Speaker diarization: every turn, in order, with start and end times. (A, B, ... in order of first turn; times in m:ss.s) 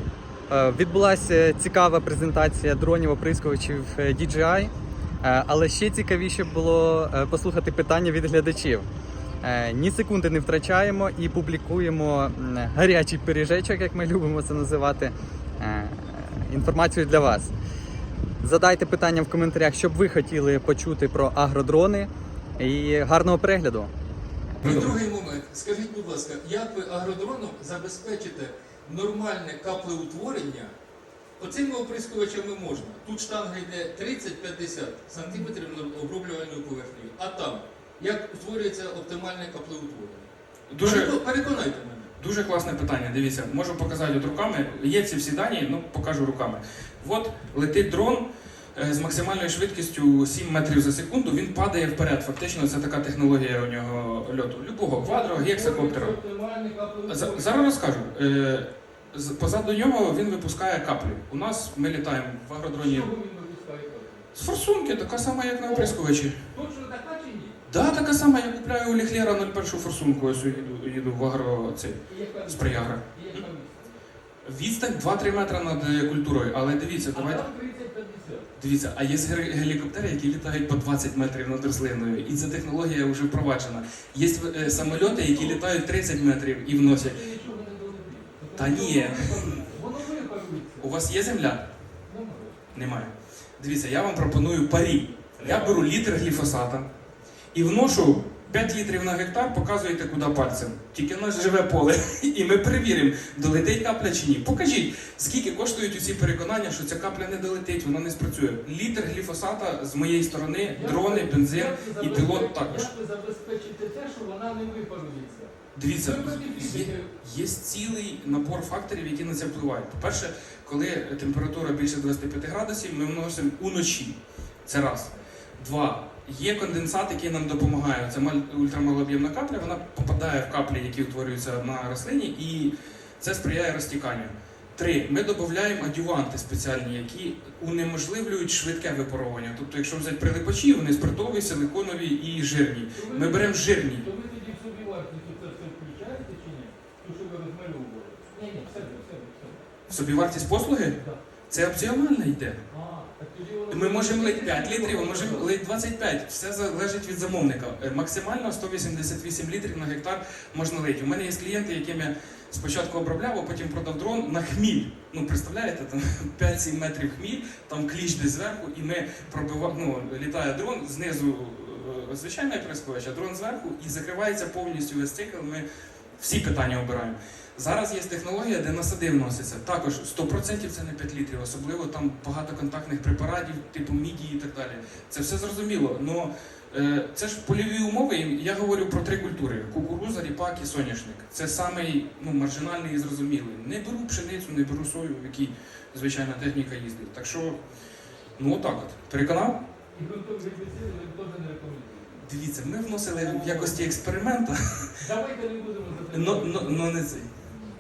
0:00.5-0:04.7 A
0:05.2-0:08.8 A
0:09.4-0:17.5 A
0:18.4-0:23.9 A
0:24.6-0:30.7 B
0:24.6-0:25.0 A
0:31.4-0:40.3 B
0:40.7-0:41.2 C
0:40.8-0:42.1 B
0:42.2-0:56.2 C
0:54.9-0:57.7 B
0:57.1-1:03.1 C
1:02.8-1:04.3 B
1:04.4-1:06.4 C
1:05.6-1:06.0 B
1:06.5-1:07.6 B
1:07.7-1:13.4 C
1:12.1-1:14.0 B
1:14.4-1:17.5 C
1:17.1-1:18.5 B
1:18.6-1:27.2 C
1:24.6-1:25.6 B
1:26.8-1:30.9 B
1:28.6-1:29.8 C
1:30.8-1:31.7 C
1:32.1-1:32.7 B
1:32.7-1:36.9 C
1:35.4-1:35.8 B
1:37.5-1:52.9 C
1:38.3-1:38.6 B
1:50.7-1:57.1 B
1:55.8-2:24.1 C
2:22.9-2:29.7 B
2:29.9-2:31.0 C
2:31.5-2:32.6 C
2:32.7-2:35.5 B
2:33.7-2:55.6 C
2:56.2-3:17.6 C
3:18.4-3:19.6 C
3:19.9-3:22.2 B
3:22.2-3:25.0 C
3:23.2-3:24.0 B
3:25.0-3:27.0 B
3:26.1-3:27.3 C